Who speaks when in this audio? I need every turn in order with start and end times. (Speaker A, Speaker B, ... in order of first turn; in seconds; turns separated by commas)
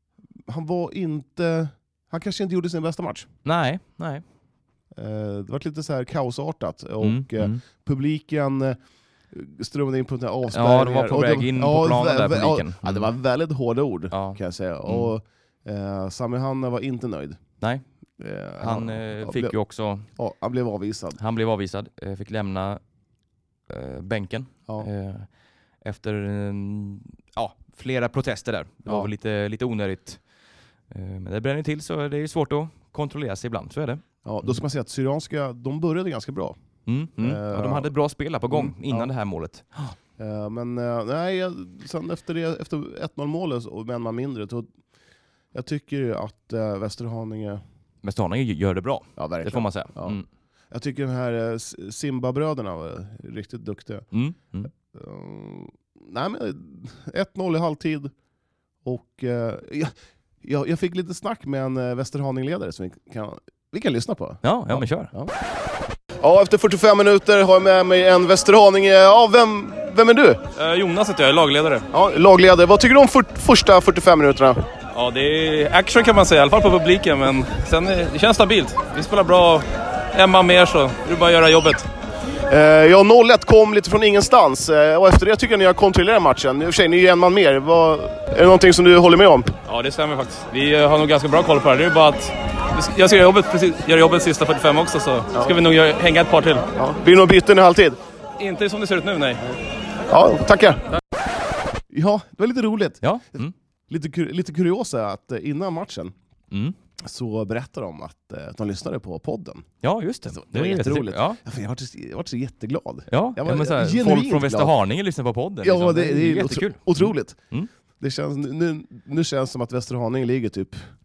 Speaker A: 0.5-3.3, Speaker B: 3.4-4.2, Speaker A: 4.9-8.8, Speaker B: 7.0-7.6, Speaker A: 9.3-17.4, Speaker B: 10.5-13.1, Speaker B: 14.1-15.1, Speaker A: 18.2-19.6, Speaker B: 18.6-20.1, Speaker A: 20.1-21.2, Speaker B: 21.2-22.8, Speaker B: 23.7-25.3, Speaker B: 25.8-30.2, Speaker B: 30.9-34.5, Speaker A: 34.2-36.5, Speaker B: 36.9-40.0, Speaker A: 37.2-37.9, Speaker A: 38.5-39.1, Speaker A: 40.2-44.7, Speaker A: 45.5-47.6, Speaker B: 48.0-50.2, Speaker A: 49.2-50.2, Speaker A: 50.7-54.1, Speaker B: 54.1-54.7, Speaker A: 54.7-58.1, Speaker A: 58.8-65.3, Speaker B: 64.4-65.1, Speaker A: 66.2-70.4, Speaker C: 70.5-71.8, Speaker A: 71.9-74.6, Speaker C: 74.9-81.9, Speaker A: 82.5-89.5, Speaker C: 89.7-96.7, Speaker A: 96.8-98.0, Speaker C: 98.4-99.4, Speaker A: 100.1-100.8, Speaker A: 101.9-106.1, Speaker B: 103.0-103.5, Speaker B: 106.5-106.8, Speaker A: 107.0-109.7, Speaker B: 109.8-111.4, Speaker A: 110.3-114.7, Speaker B: 113.1-117.7, Speaker A: 115.6-117.4, Speaker A: 118.0-120.9